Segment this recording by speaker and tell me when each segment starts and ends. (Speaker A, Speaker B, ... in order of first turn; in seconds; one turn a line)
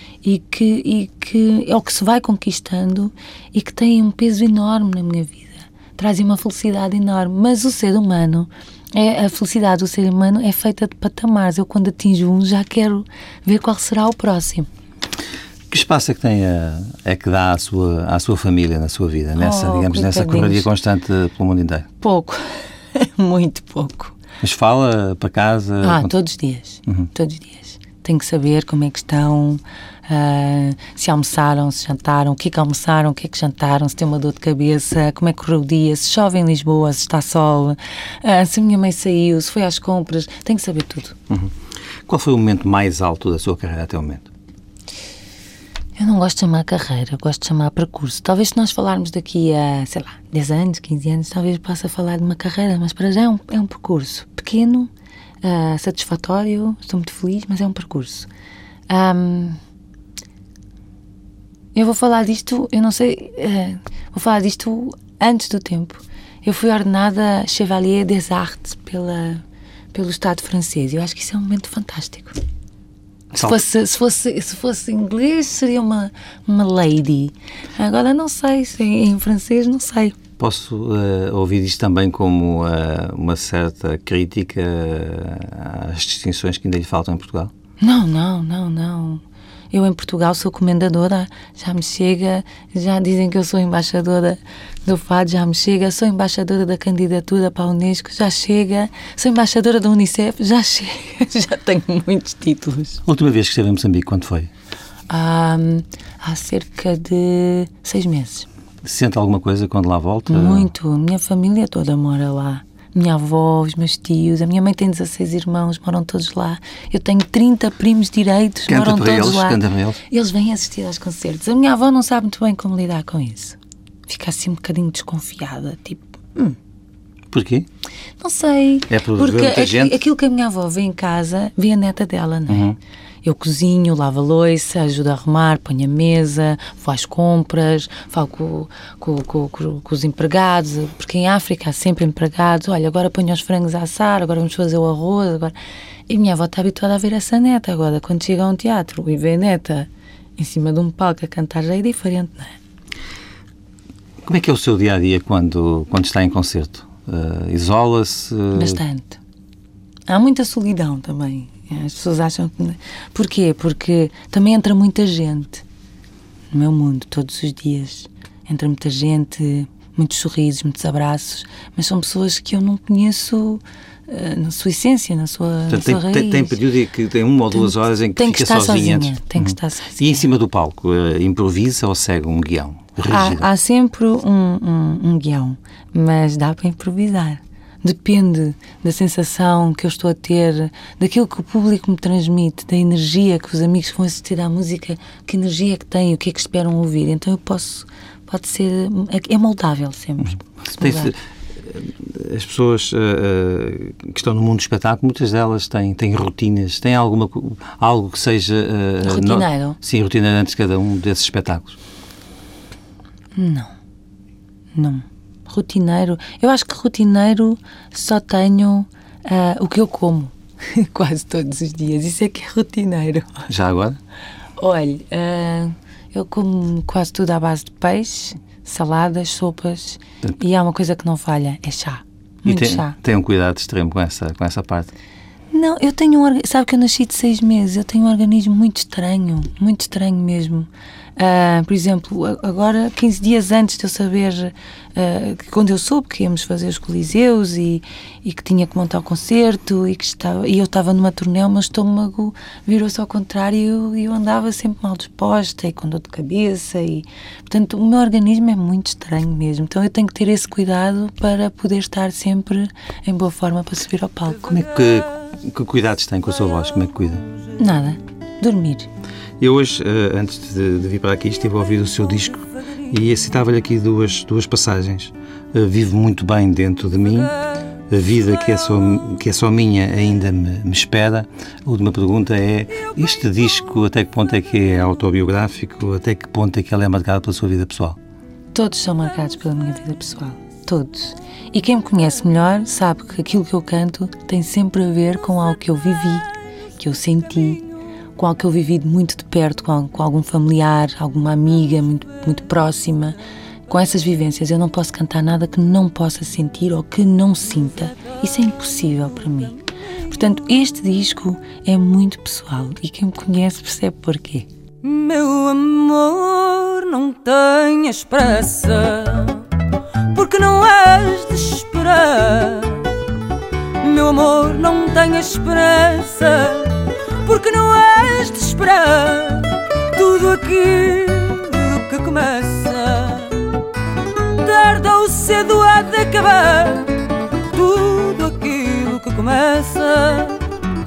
Speaker A: 0.2-14.7
Speaker B: 15.7-21.9
Speaker A: 19.4-20.7
Speaker A: 22.0-24.1
Speaker B: 24.4-26.1
Speaker A: 25.8-41.2
Speaker B: 42.1-44.3
Speaker A: 46.0-54.9
Speaker A: 55.4-58.3
Speaker A: 58.9-59.6
Speaker A: 61.8-72.4
Speaker A: 73.3-80.2
Speaker B: 73.3-73.6
Speaker B: 80.4-87.5
Speaker A: 87.8-103.0
Speaker B: 103.0-104.5
Speaker A: 105.1-108.5
Speaker B: 108.8-110.7
Speaker A: 110.3-126.6
Speaker B: 118.7-120.0
Speaker B: 127.3-127.7
Speaker A: 128.2-145.6
Speaker B: 128.9-130.0
Speaker B: 132.5-132.8
Speaker A: 146.1-152.6
Speaker B: 154.2-158.8
Speaker A: 158.5-159.2
Speaker A: 160.1-165.6
Speaker A: 166.5-176.6
Speaker B: 175.7-183.5
Speaker A: 178.2-180.3
Speaker A: 183.1-201.1
Speaker B: 200.8-211.8
Speaker A: 209.0-209.8
Speaker A: 213.4-213.7
Speaker A: 214.8-223.5
Speaker B: 223.5-224.0
Speaker A: 224.6-233.0
Speaker B: 232.5-234.9
Speaker A: 235.5-264.5
Speaker B: 264.4-267.3
Speaker A: 267.6-268.9
Speaker B: 269.4-277.4
Speaker B: 277.9-288.0
Speaker A: 288.5-297.6
Speaker A: 298.2-309.6
Speaker A: 310.1-314.5
Speaker C: 314.8-319.5
Speaker C: 320.1-322.9
Speaker C: 323.8-333.6
Speaker C: 334.4-340.5